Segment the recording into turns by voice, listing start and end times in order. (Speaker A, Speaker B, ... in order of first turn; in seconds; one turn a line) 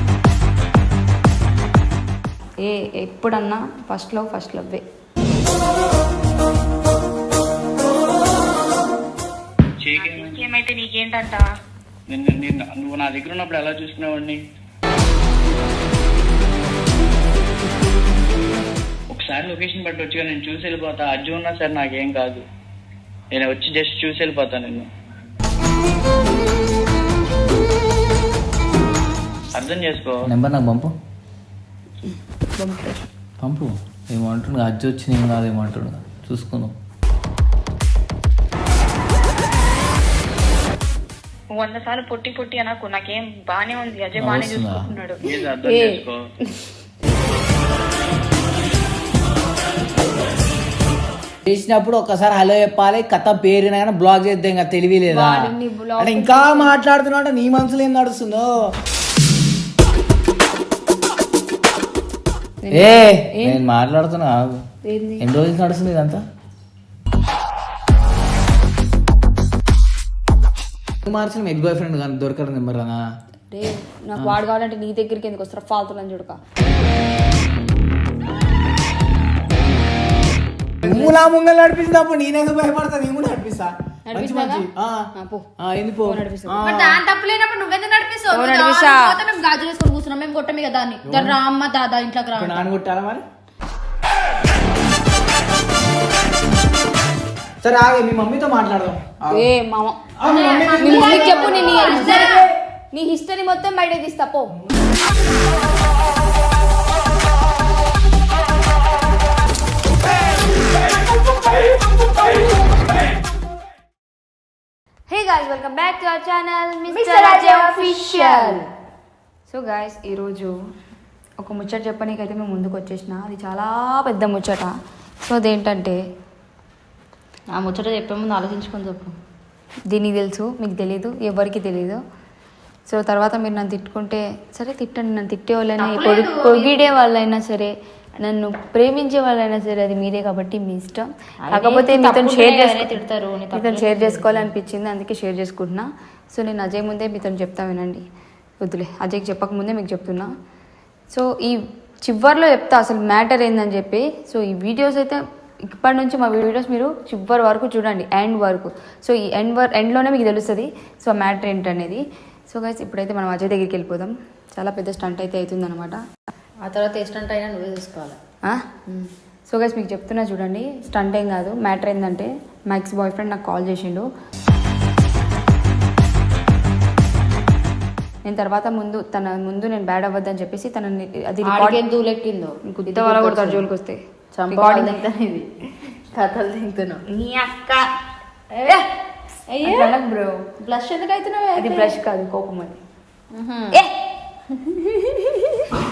Speaker A: 2.6-4.8
Speaker B: 9.8-10.5
Speaker C: 10.0-11.4
Speaker B: 12.1-14.4
Speaker B: 19.1-22.4
Speaker B: 23.3-24.9
Speaker B: 29.5-30.2
Speaker D: 30.2-30.9
Speaker A: 32.6-33.0
Speaker D: 33.4-36.7
Speaker C: 41.6-45.2
Speaker D: 44.1-44.9
Speaker B: 45.2-46.2
Speaker A: 45.6-46.7
Speaker D: 51.4-55.5
Speaker A: 55.1-56.8
Speaker D: 56.0-58.6
Speaker A: 62.6-63.6
Speaker D: 62.7-64.6
Speaker A: 64.8-65.2
Speaker D: 65.2-66.2
Speaker D: 71.0-73.0
Speaker A: 73.5-76.4
Speaker D: 80.8-85.0
Speaker A: 80.8-81.1
Speaker A: 84.1-85.5
Speaker D: 85.6-87.0
Speaker A: 86.0-86.6
Speaker E: 86.6-92.6
Speaker A: 88.3-89.2
Speaker D: 91.0-91.4
Speaker D: 92.3-93.2
Speaker D: 97.6-99.4
Speaker A: 99.3-100.0
Speaker D: 100.2-102.5
Speaker E: 100.2-102.5
Speaker A: 100.7-104.5
Speaker A: 115.1-118.6
Speaker E: 116.9-118.7
Speaker A: 119.5-120.5
Speaker A: 121.4-124.7
Speaker A: 125.2-126.0
Speaker E: 127.5-129.2
Speaker A: 129.9-132.0
Speaker A: 132.9-143.0
Speaker E: 135.8-136.8
Speaker E: 141.4-144.5
Speaker A: 143.5-148.0
Speaker A: 148.6-150.3
Speaker A: 151.1-166.0
Speaker E: 166.6-168.2
Speaker A: 169.5-174.1
Speaker A: 178.2-181.8
Speaker E: 181.4-183.6
Speaker A: 182.6-185.0
Speaker E: 184.3-187.0
Speaker A: 187.1-187.8
Speaker E: 188.5-188.9
Speaker E: 189.5-189.9
Speaker A: 189.6-190.3
Speaker E: 190.6-192.0
Speaker A: 191.6-192.8
Speaker E: 193.3-193.8